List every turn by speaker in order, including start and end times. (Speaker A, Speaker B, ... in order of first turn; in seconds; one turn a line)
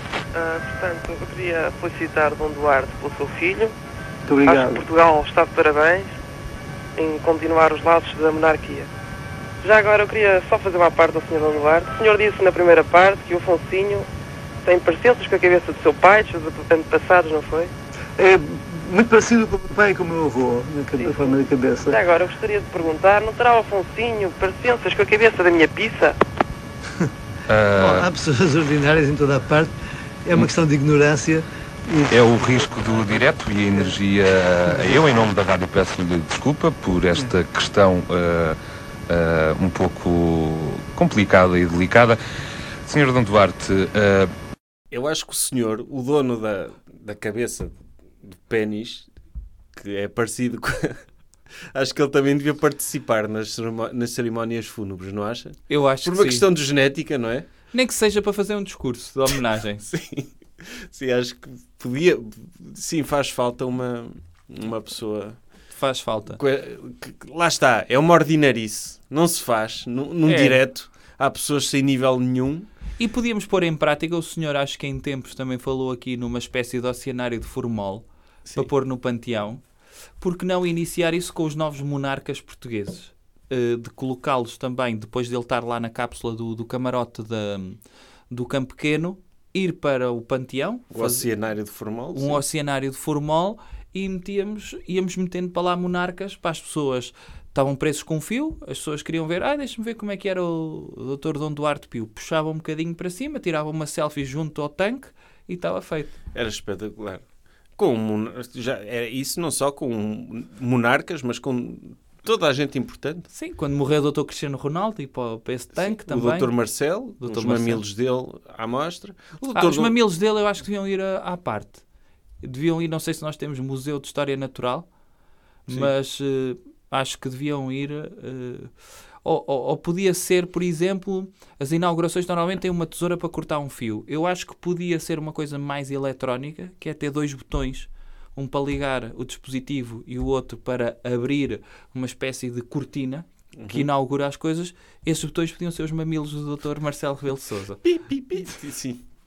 Speaker A: 0.3-3.7
Speaker B: 4.3-4.8
Speaker A: 4.4-6.1
Speaker A: 7.0-8.9
Speaker A: 9.6-14.1
Speaker A: 14.6-17.7
Speaker B: 18.2-22.0
Speaker A: 21.0-26.2
Speaker C: 27.5-28.1
Speaker B: 27.8-32.2
Speaker C: 32.1-38.6
Speaker C: 39.1-42.2
Speaker C: 42.8-44.3
Speaker D: 44.9-49.1
Speaker D: 49.7-51.0
Speaker D: 51.7-57.5
Speaker E: 55.7-56.5
Speaker E: 57.7-59.9
Speaker D: 59.8-65.4
Speaker E: 65.7-66.4
Speaker D: 66.3-72.7
Speaker E: 70.2-70.6
Speaker E: 73.0-79.6
Speaker E: 80.2-87.8
Speaker E: 88.3-91.3
Speaker D: 90.9-92.4
Speaker E: 92.1-106.1
Speaker D: 106.3-107.2
Speaker D: 107.8-113.3
Speaker E: 113.3-116.5
Speaker D: 115.8-120.0
Speaker E: 117.2-117.8
Speaker E: 119.5-121.8
Speaker E: 122.4-124.9
Speaker E: 125.7-128.7
Speaker E: 129.2-147.8
Speaker D: 143.6-143.9
Speaker D: 147.8-149.0